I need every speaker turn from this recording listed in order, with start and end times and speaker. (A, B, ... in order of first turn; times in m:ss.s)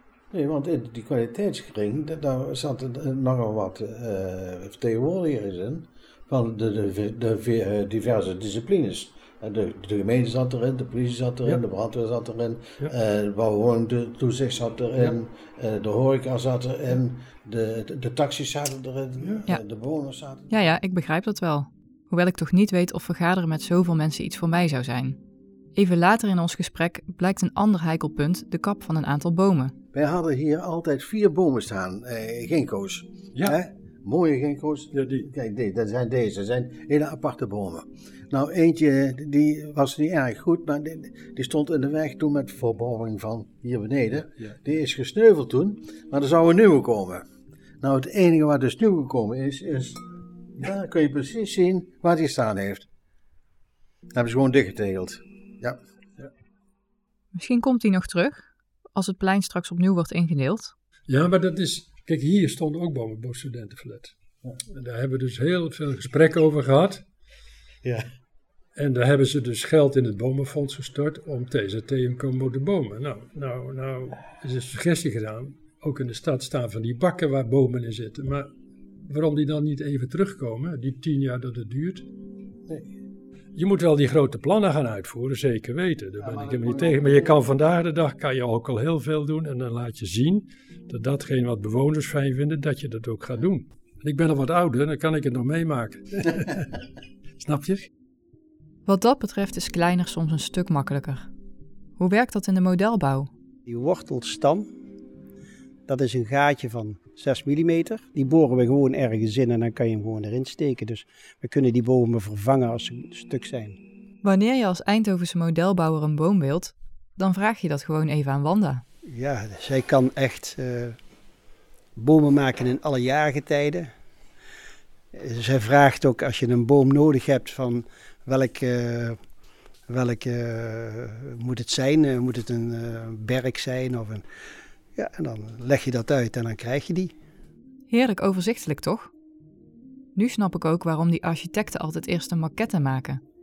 0:00.3-0:20.5 A
0:19.2-0:19.5 B
0:20.5-0:25.2 C
0:25.8-0:29.8 C
0:29.9-0:47.2 A
0:34.9-0:35.3 B
0:47.8-0:50.0 A
0:50.6-0:52.9 A
0:54.1-0:55.8 A
0:57.3-1:00.7 C
1:01.1-1:04.2 B
1:04.7-1:07.0 B
1:08.8-1:18.5 B
1:19.0-1:22.1 B
1:23.6-1:36.7 B
1:26.2-1:27.4 A
1:37.4-1:37.9 B
1:38.9-1:41.3 C
1:42.0-1:43.3 C
1:43.7-1:44.7 D
1:45.9-1:53.8 D
1:54.2-1:58.8 C
1:59.0-2:01.0 D
2:02.0-2:03.9 D
2:05.1-2:09.2 D
2:09.9-2:14.2 D
2:15.0-2:17.1 D
2:17.9-2:19.1 C
2:20.2-2:23.2 C